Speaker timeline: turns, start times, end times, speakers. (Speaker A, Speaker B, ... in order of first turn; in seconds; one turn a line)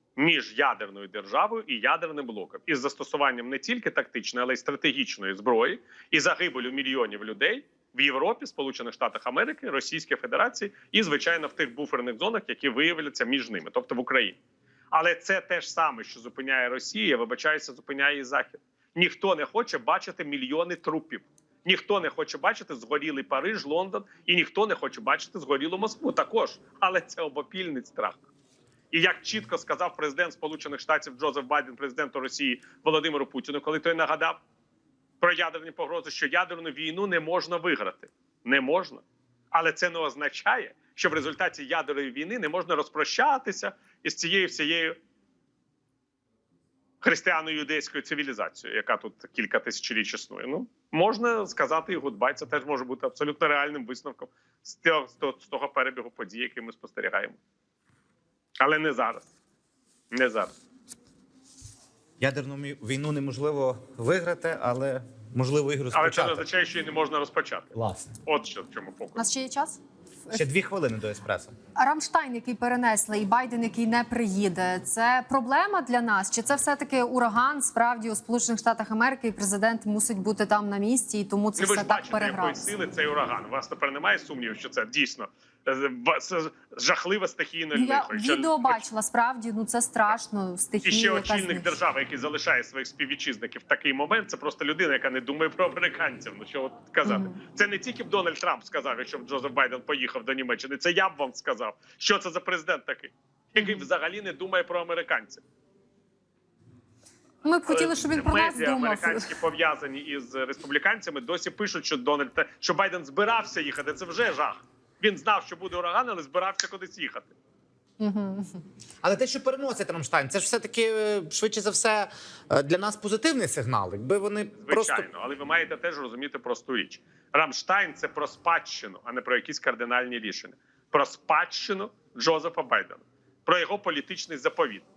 Speaker A: 0.1-14.4
Speaker A: 14.9-28.2
Speaker A: 28.9-34.4
Speaker A: 35.2-45.0
Speaker A: 47.0-57.4
Speaker A: 58.6-59.3
Speaker A: 60.1-60.5
Speaker B: 62.2-66.4
Speaker A: 65.9-67.7
Speaker B: 67.7-68.1
Speaker A: 68.2-69.3
Speaker C: 69.2-70.4
Speaker B: 70.3-71.5
Speaker C: 71.8-82.7
Speaker A: 81.6-88.8
Speaker C: 87.7-91.7
Speaker A: 90.8-105.4
Speaker C: 97.0-97.4
Speaker C: 103.5-103.8
Speaker C: 107.4-109.3
Speaker A: 107.7-117.3
Speaker C: 118.0-118.6
Speaker B: 119.0-125.1
Speaker A: 124.6-134.9